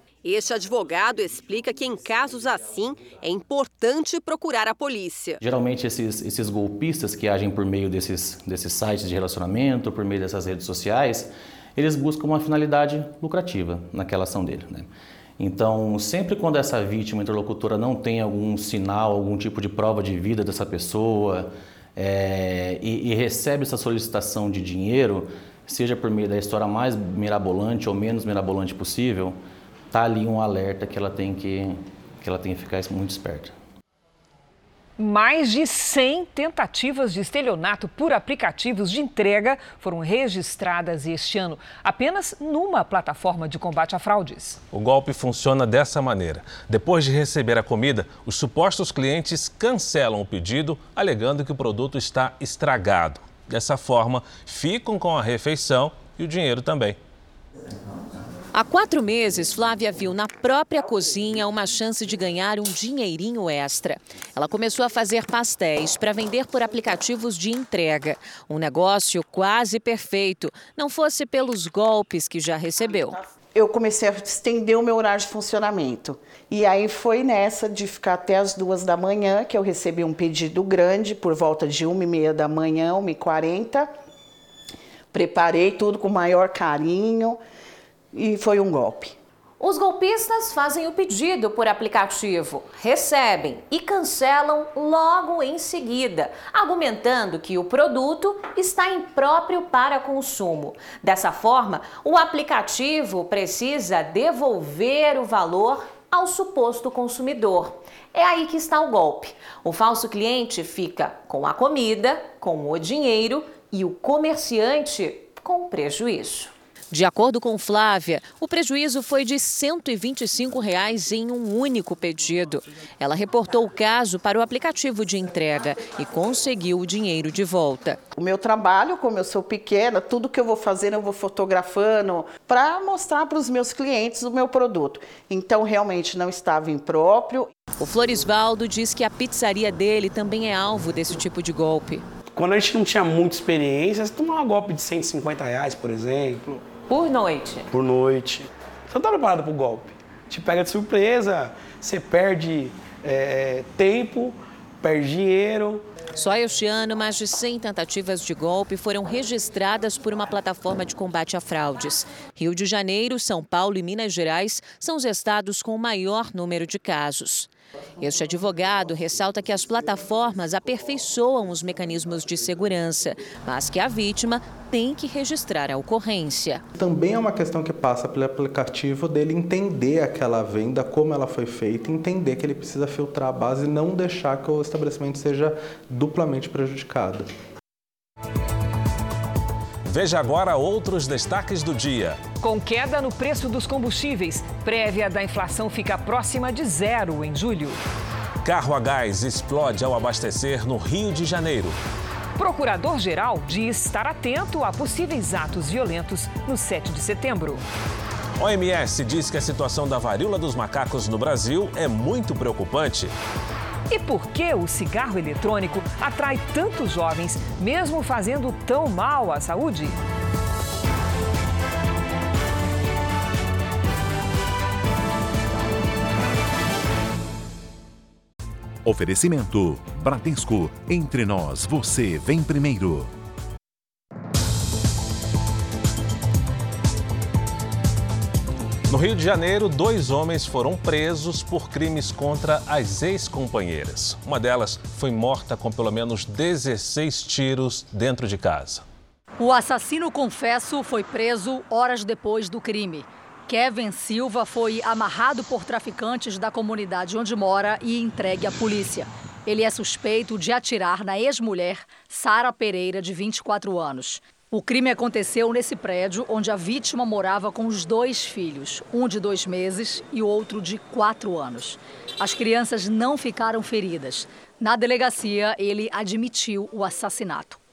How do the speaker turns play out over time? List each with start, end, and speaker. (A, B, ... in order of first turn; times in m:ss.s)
0:00.2-0:05.4 A
0:05.4-0:29.4 B
0:29.9-0:33.6 B
0:35.0-0:44.6 C
0:44.7-0:57.0 D
0:58.5-1:13.2 E
1:13.5-1:23.9 F
1:25.1-1:27.4 F
1:28.1-1:29.2 F
1:29.6-2:08.0 E
2:08.2-2:17.5 F
2:17.8-2:22.0 E
2:22.3-2:26.6 G
2:26.9-2:27.7 E
2:27.7-2:35.8 G
2:36.1-2:56.6 E
2:56.7-3:07.3 H
3:09.8-3:12.2 D
3:12.4-3:17.8 C
3:18.4-3:21.8 D
3:22.4-3:27.6 C
3:28.4-3:33.1 D
3:33.9-3:40.0 C
3:48.8-3:53.1 I
3:58.9-4:08.8 D
4:09.4-4:37.6 J